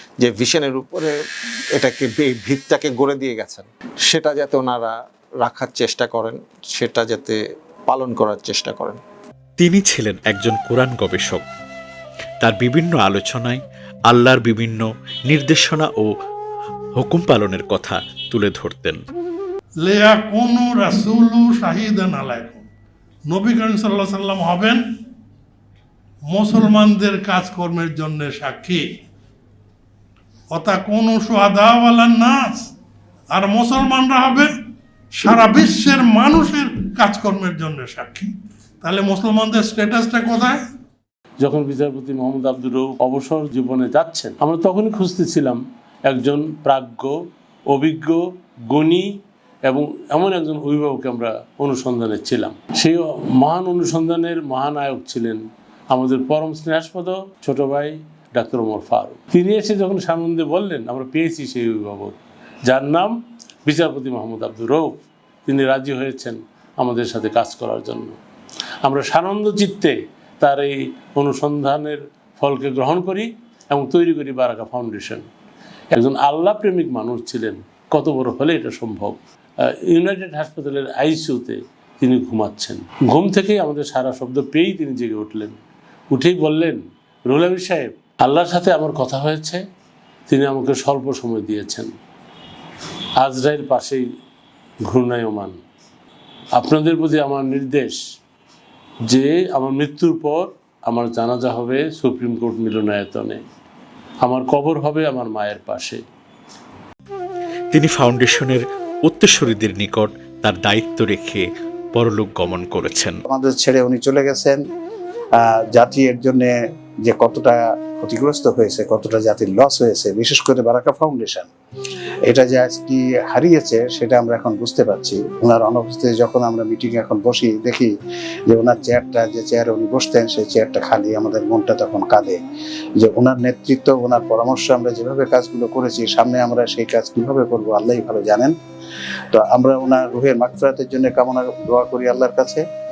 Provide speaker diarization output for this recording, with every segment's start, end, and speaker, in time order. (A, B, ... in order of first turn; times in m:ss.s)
0:00.2-0:01.2 A
0:01.7-0:09.0 A
0:09.6-0:11.4 B
0:12.4-0:16.1 B
0:17.0-0:19.0 B
0:19.8-0:22.6 C
0:23.3-0:24.9 C
0:26.3-0:28.9 C
0:30.5-0:32.7 C
0:33.3-0:34.5 C
0:35.1-0:40.6 C
0:41.4-0:47.2 D
0:47.7-1:03.1 D
1:03.6-1:08.2 D
1:08.8-1:15.2 D
1:15.9-1:25.6 D
1:26.1-1:29.6 D
1:30.3-1:31.9 D
1:33.2-1:34.0 D
1:34.8-1:35.6 D
1:36.5-1:38.0 D
1:39.1-1:43.4 D
1:44.2-1:46.0 D
1:47.7-1:53.2 B
1:53.3-1:54.6 E
1:55.4-1:56.5 E
1:57.0-2:01.5 E
2:02.2-2:07.9 E
2:08.5-2:12.4 E
2:13.0-2:18.5 E
2:19.3-2:22.6 E